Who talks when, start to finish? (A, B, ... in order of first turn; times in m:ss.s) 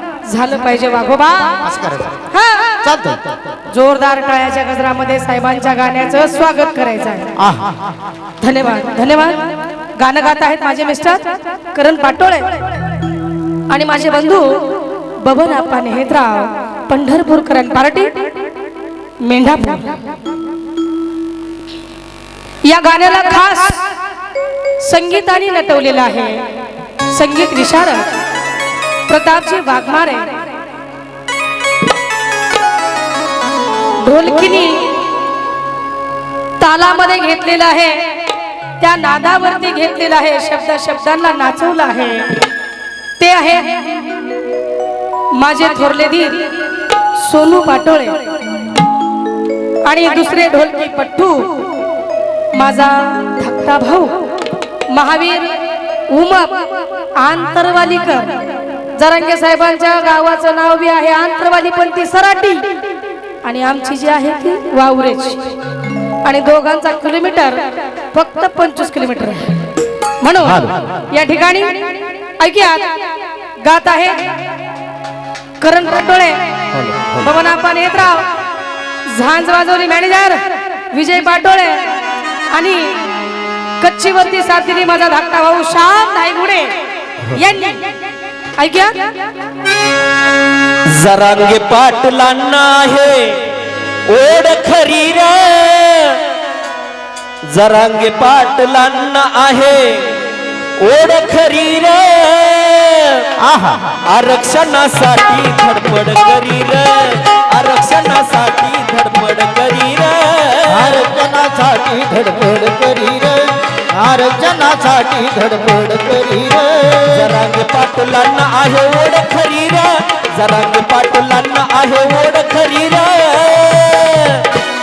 0:00.3-0:01.6 A
0:01.7-0:02.1 B
0:02.3-0:02.8 A
0:02.8-0:03.3 B
0:03.7-0:07.3 A
0:07.4-0:07.7 B
0:08.4-0:12.6 A
0:13.7-0:18.1 A
0:19.2-0:20.1 A
0:22.6-0:23.8 A
0:24.8-0:26.4 A
0:27.1-0:28.2 A
0:29.1-0:30.4 A
0:34.0-0:35.0 A
0:36.6-0:38.2 A
0:38.8-0:42.3 A
0:43.2-0:43.8 A
0:45.3-0:48.2 A
0:49.8-0:51.7 A
0:52.5-0:54.3 A
0:54.9-0:58.4 A
0:58.9-1:02.7 A
1:03.4-1:05.6 A
1:06.2-1:09.7 A
1:10.2-1:12.9 A
1:13.6-1:14.3 A
1:15.6-1:18.3 A
1:19.1-1:22.0 A
1:22.5-1:23.1 A
1:23.8-1:27.9 A
1:28.6-1:29.0 A
1:30.9-1:33.4 C
1:34.1-1:36.2 C
1:37.5-1:40.1 C
1:40.8-1:43.3 C
1:43.4-1:44.0 B
1:44.1-1:51.0 C
1:50.7-1:57.3 B
1:57.1-2:04.5 C